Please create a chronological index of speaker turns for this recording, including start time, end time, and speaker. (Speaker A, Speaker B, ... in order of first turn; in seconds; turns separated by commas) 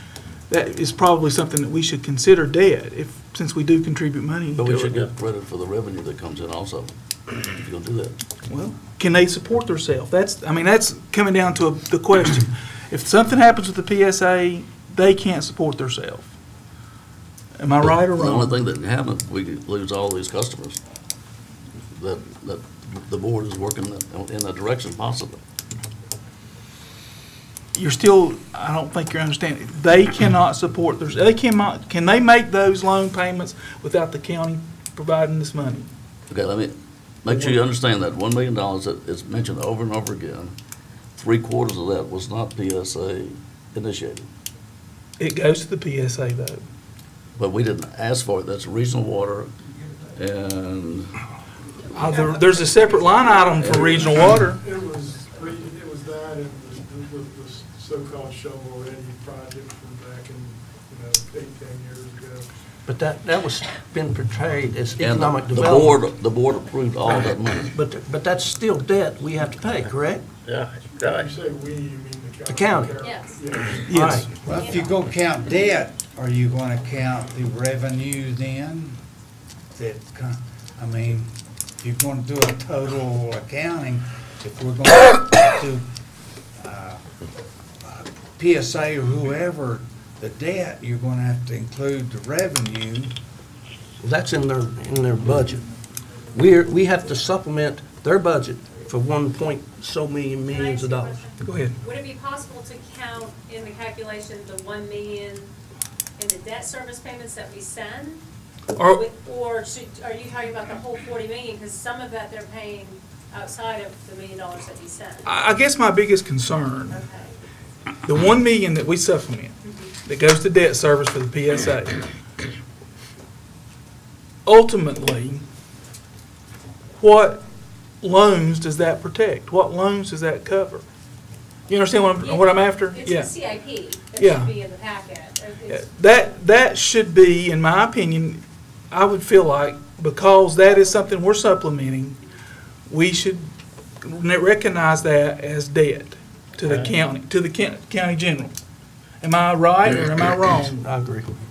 Speaker A: 0.5-5.0, Speaker B: 4.5-8.2, Speaker A: 8.4-16.3, Speaker A: 17.6-18.6, Speaker B: 17.9-20.8, Speaker B: 21.9-25.4, Speaker A: 27.7-35.9, Speaker B: 36.3-40.5, Speaker A: 37.3-37.6, Speaker B: 41.1-44.3, Speaker A: 45.2-46.6, Speaker B: 47.4-49.5, Speaker B: 50.1-51.1, Speaker A: 51.9-54.6, Speaker B: 53.5-54.2, Speaker C: 54.6-62.5, Speaker D: 62.9-66.0, Speaker B: 65.0-67.7, Speaker D: 67.1-70.3, Speaker B: 70.4-71.3, Speaker C: 71.1-74.0, Speaker D: 72.4-72.9, Speaker E: 73.0-73.4, Speaker A: 73.9-74.3, Speaker D: 73.9-74.3, Speaker F: 74.3-79.0, Speaker E: 74.5-75.0, Speaker F: 79.7-85.8, Speaker F: 86.6-87.0, Speaker F: 87.8-93.1, Speaker D: 94.0-95.7, Speaker D: 96.3-101.2, Speaker E: 100.5-105.5, Speaker A: 101.4-101.7, Speaker E: 106.2-108.2, Speaker A: 108.8-109.0, Speaker E: 108.8-115.3, Speaker A: 115.2-117.0, Speaker E: 116.9-117.3, Speaker A: 118.0-122.0, Speaker E: 119.6-119.9, Speaker A: 124.5-125.4, Speaker A: 127.0-127.4, Speaker A: 128.0-130.8, Speaker A: 131.7-133.3, Speaker E: 132.2-136.2, Speaker A: 134.2-134.5, Speaker A: 135.7-142.2, Speaker A: 142.9-148.5, Speaker A: 149.2-150.8, Speaker D: 150.8-151.3